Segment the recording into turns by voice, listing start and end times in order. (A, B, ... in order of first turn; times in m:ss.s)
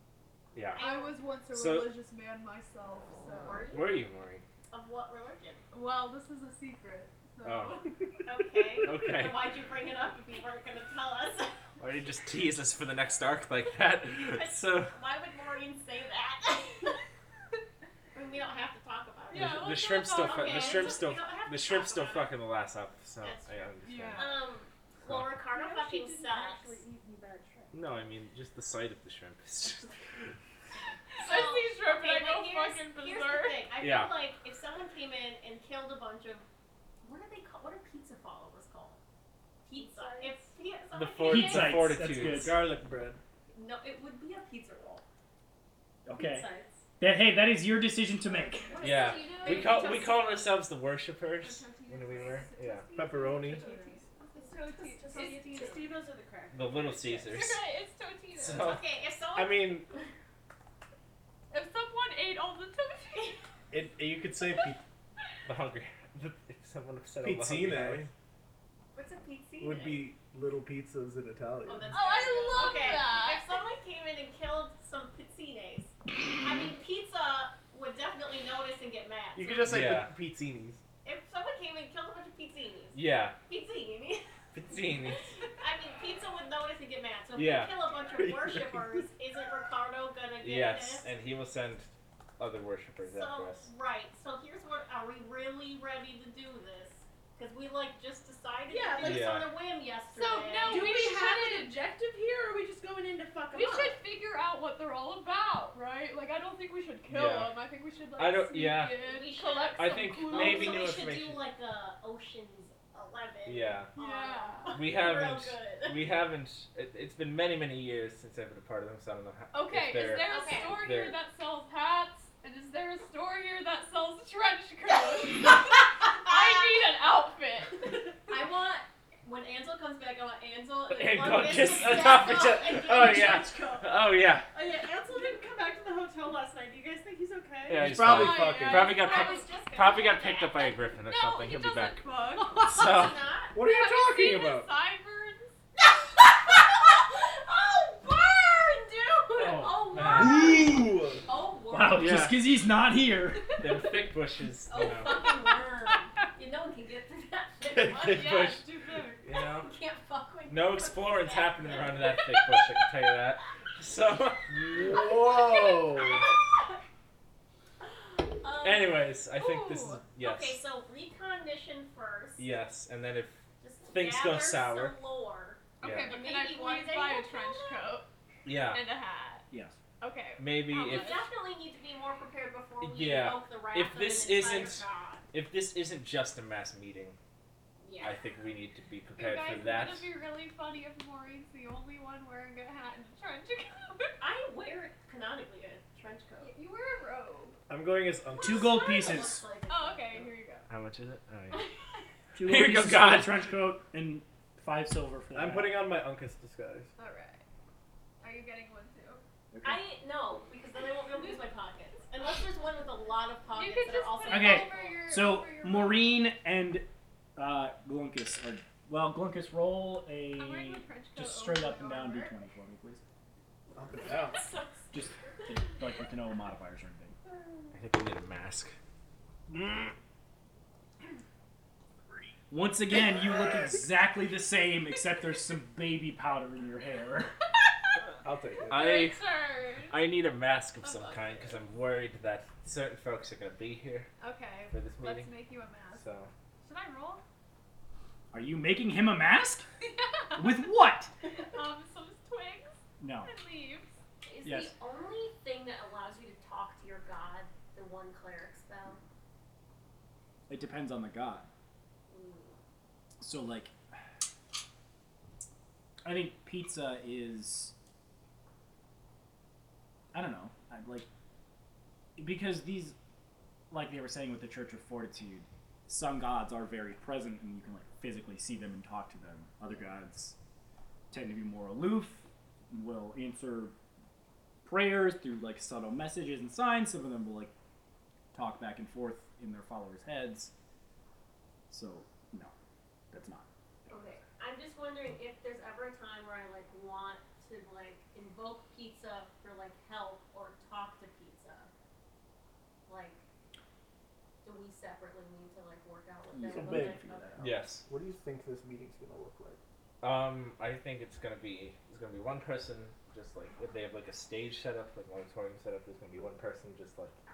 0:00.5-0:00.8 A
0:00.7-0:01.2 B
0:00.8-0:03.7 C
0:01.5-0:01.9 A
0:03.4-0:04.0 B
0:03.7-0:04.4 A
0:04.7-0:05.6 B
0:05.7-0:08.0 C
0:07.4-0:07.8 A
0:08.2-0:11.6 B
0:08.8-0:09.5 A
0:11.8-0:15.0 A
0:14.2-0:17.0 B
0:18.1-0:19.6 B
0:19.3-0:21.0 C
0:19.3-0:24.4 A
0:20.2-0:22.4 B
0:23.2-0:26.8 B
0:23.8-0:24.3 C
0:25.0-0:25.4 A
0:25.5-0:27.8 D
0:27.7-0:30.3 A
0:31.2-0:33.6 C
0:31.2-0:36.5 B
0:33.8-0:34.1 A
0:37.0-0:39.0 B
0:39.6-0:42.1 B
0:39.7-0:40.5 D
0:40.9-0:42.6 A
0:41.2-0:42.6 E
0:42.2-0:43.2 F
0:43.5-0:45.0 B
0:46.0-0:48.8 E
0:46.1-0:46.8 B
0:48.7-0:50.2 B
0:48.7-0:50.0 D
0:48.8-0:50.1 C
0:48.8-0:52.9 A
0:51.4-0:56.0 C
0:51.8-0:57.3 D
0:52.9-0:53.6 F
0:56.5-0:57.6 A
0:57.3-0:58.8 C
0:58.4-0:58.9 A
0:58.5-1:00.0 B
0:59.4-0:59.9 F
1:01.5-1:03.4 C
1:03.7-1:04.8 F
1:05.4-1:08.1 A
1:07.1-1:08.1 F
1:08.9-1:10.1 B
1:09.6-1:11.9 F
1:11.6-1:19.9 B
1:11.9-1:13.6 C
1:12.6-1:12.8 D
1:19.3-1:20.8 F
1:19.6-1:20.1 A
1:21.0-1:24.2 B
1:22.9-1:23.4 A
1:24.5-1:25.3 A
1:25.6-1:31.1 B
1:27.3-1:27.8 A
1:28.2-1:29.0 F
1:30.4-1:33.7 A
1:33.0-1:40.9 B
1:38.7-1:39.3 D
1:39.0-1:39.5 A
1:40.1-1:44.0 D
1:40.4-1:41.8 C
1:43.5-1:50.8 C
1:47.1-1:47.5 A
1:48.2-1:49.0 A
1:49.0-1:56.2 B
1:49.8-1:51.4 A
1:53.4-1:53.9 A
1:54.0-1:54.8 C
1:54.7-2:01.2 A
1:59.5-2:08.0 C
2:00.2-2:00.8 B
2:05.1-2:05.6 B
2:06.3-2:06.8 B
2:08.3-2:14.1 B
2:10.9-2:14.5 A
2:14.5-2:17.9 D
2:17.7-2:23.2 A
2:17.8-2:18.9 F
2:17.8-2:19.5 C
2:18.7-2:20.8 B
2:21.0-2:22.9 C
2:22.7-2:23.6 B
2:23.5-2:24.7 F
2:23.5-2:25.5 C
2:27.1-2:30.7 B
2:29.4-2:30.6 A
2:30.2-2:30.8 E
2:30.2-2:31.2 F
2:31.2-2:32.2 B
2:31.7-2:33.5 E
2:31.9-2:32.4 A
2:33.6-2:35.2 A
2:34.7-2:38.5 B
2:35.1-2:35.6 C
2:37.7-2:38.6 A
2:38.1-2:39.2 C
2:39.2-2:39.7 A
2:39.4-2:42.8 B
2:40.5-2:44.5 A
2:44.5-2:46.2 F
2:44.7-2:46.4 B
2:48.4-2:49.1 B
2:48.6-2:50.6 A
2:49.4-2:50.0 C
2:50.2-2:52.6 B
2:52.4-2:55.0 A
2:53.6-2:57.9 B
2:55.8-2:56.2 A
2:55.8-2:58.1 C
2:58.4-2:58.8 A
2:58.7-2:59.4 C
2:59.5-2:59.8 E
3:00.0-3:01.3 C
3:00.4-3:01.2 A
3:00.8-3:05.3 B
3:02.8-3:07.2 A
3:07.8-3:08.2 B
3:08.0-3:10.1 A
3:09.2-3:14.1 C
3:14.2-3:16.5 B
3:16.4-3:17.6 C
3:17.7-3:18.8 F
3:18.4-3:19.4 E
3:18.5-3:20.3 B
3:19.7-3:20.7 C
3:20.7-3:21.6 A
3:22.3-3:25.8 E
3:22.4-3:23.4 A
3:25.3-3:26.9 F
3:27.0-3:27.4 C
3:28.2-3:29.2 C
3:29.5-3:29.8 E
3:29.6-3:35.0 B
3:33.5-3:36.2 C
3:34.3-3:43.0 E
3:40.4-3:42.3 C
3:43.7-3:44.4 F
3:44.0-3:45.5 B
3:44.9-3:47.1 E
3:47.7-3:48.7 A
3:52.5-3:57.3 E
3:58.2-3:59.0 F
3:58.7-3:59.2 A
3:58.7-4:00.0 C
3:59.9-4:04.1 A
4:00.8-4:01.6 C
4:04.2-4:06.0 C
4:04.7-4:05.3 A
4:05.9-4:06.3 A
4:06.6-4:07.2 C
4:08.3-4:09.7 E
4:09.8-4:10.6 C
4:10.3-4:11.1 E
4:11.4-4:13.9 C
4:13.0-4:13.3 E
4:14.2-4:19.0 B
4:14.4-4:14.7 E
4:20.5-4:21.5 E
4:22.1-4:22.6 B
4:23.2-4:23.7 E
4:26.0-4:27.7 E
4:30.1-4:31.1 E
4:32.2-4:33.0 E
4:33.7-4:40.4 E
4:41.1-4:43.7 E
4:44.6-4:47.5 E
4:48.3-4:50.5 E
4:51.7-4:52.5 E
4:53.1-4:53.4 E
4:53.9-5:01.7 B
5:02.9-5:03.2 B
5:04.4-5:07.4 B
5:06.3-5:07.6 E
5:06.5-5:09.6 F
5:07.4-5:07.9 A
5:10.0-5:17.1 A